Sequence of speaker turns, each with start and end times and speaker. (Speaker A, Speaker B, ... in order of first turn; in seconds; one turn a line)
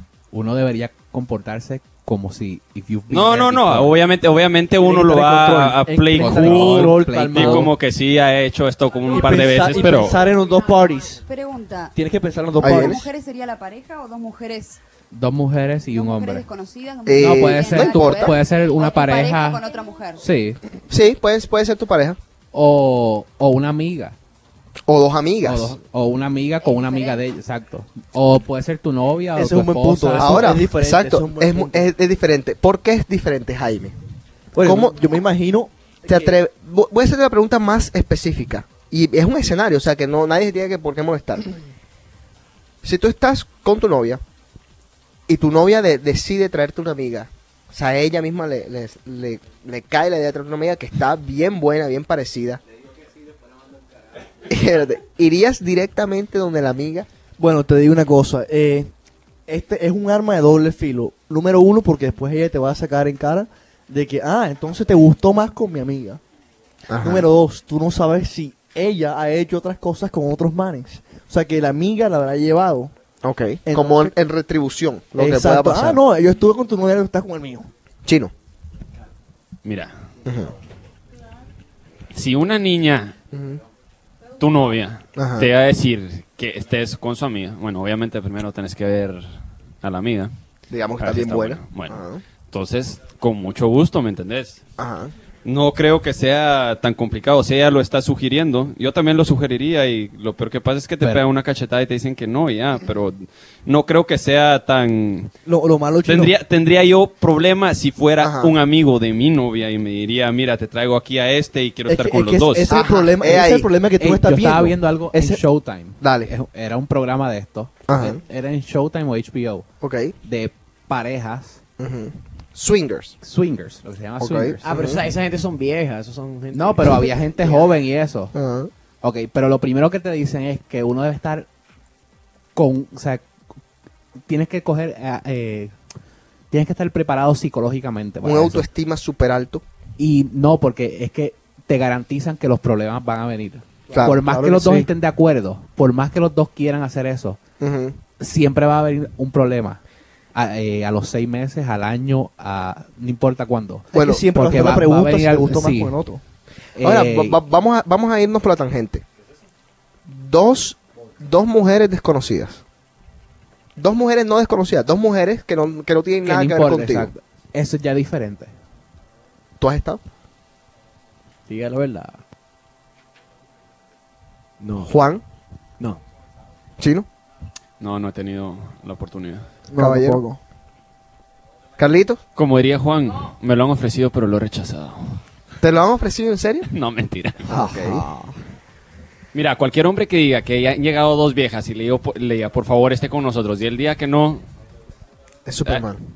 Speaker A: 0.3-4.0
Speaker B: 3.1-10.2
Speaker C: 4.8-7.7
Speaker A: 6.2-7.7
Speaker C: 9.1-11.2
Speaker D: 11.2-11.9
Speaker C: 11.9-13.0
Speaker E: 12.6-13.1
Speaker D: 12.7-14.8
Speaker A: 15.1-16.5
Speaker D: 15.9-20.2
Speaker E: 17.1-18.4
Speaker A: 17.1-19.6
Speaker A: 20.2-20.6
Speaker E: 20.9-22.2
Speaker A: 22.5-24.2
Speaker E: 24.9-25.8
Speaker A: 25.4-30.6
Speaker D: 26.6-27.2
Speaker C: 29.4-31.9
Speaker E: 30.2-34.0
Speaker C: 34.5-36.3
Speaker E: 34.6-35.1
Speaker E: 36.0-41.6
Speaker E: 42.8-44.2
Speaker E: 45.3-52.6
Speaker E: 54.5-57.1
Speaker C: 57.4-58.9
Speaker C: 59.5-66.2
Speaker E: 66.9-67.3
Speaker C: 67.0-72.9
Speaker E: 73.2-76.0
Speaker C: 73.7-74.2
Speaker C: 75.1-77.7
Speaker E: 78.0-78.3
Speaker B: 79.6-79.9
Speaker E: 80.2-80.5
Speaker B: 82.1-83.2
Speaker E: 83.3-83.6
Speaker B: 84.4-90.3
Speaker E: 85.2-85.5
Speaker E: 90.7-92.2
Speaker B: 91.0-94.6
Speaker E: 94.8-95.1
Speaker B: 95.5-105.3
Speaker C: 105.5-106.3
Speaker B: 106.0-112.7
Speaker E: 108.2-108.5
Speaker C: 111.9-115.4
Speaker E: 112.7-113.7
Speaker A: 114.0-119.7
Speaker E: 116.0-116.3
Speaker E: 117.9-118.2
Speaker E: 119.8-120.2
Speaker A: 120.2-121.6
Speaker E: 121.8-123.2
Speaker A: 123.2-124.8
Speaker E: 124.2-125.0
Speaker F: 124.7-127.6
Speaker A: 126.5-128.3
Speaker E: 128.3-128.7
Speaker A: 129.0-131.5
Speaker A: 132.6-133.2
Speaker A: 134.3-135.7
Speaker A: 136.5-138.7
Speaker E: 138.2-139.6
Speaker A: 140.0-147.4
Speaker E: 143.9-144.8
Speaker C: 143.9-144.8
Speaker E: 147.6-148.0
Speaker A: 148.2-149.8
Speaker A: 150.3-156.0
Speaker C: 153.9-156.2
Speaker E: 153.9-154.2
Speaker A: 156.8-157.4
Speaker E: 156.8-159.1
Speaker E: 160.1-162.6
Speaker E: 163.8-167.1
Speaker A: 166.2-168.5
Speaker E: 169.6-170.0
Speaker F: 171.5-172.2
Speaker F: 174.6-174.9
Speaker E: 174.8-175.2
Speaker E: 176.8-177.1
Speaker B: 177.8-179.5
Speaker C: 179.7-180.4
Speaker E: 179.8-180.2
Speaker E: 181.8-182.2
Speaker B: 182.4-185.2
Speaker E: 185.6-186.7
Speaker B: 186.7-187.5
Speaker E: 187.5-188.1
Speaker C: 187.5-188.3
Speaker B: 189.3-194.4
Speaker E: 195.5-196.0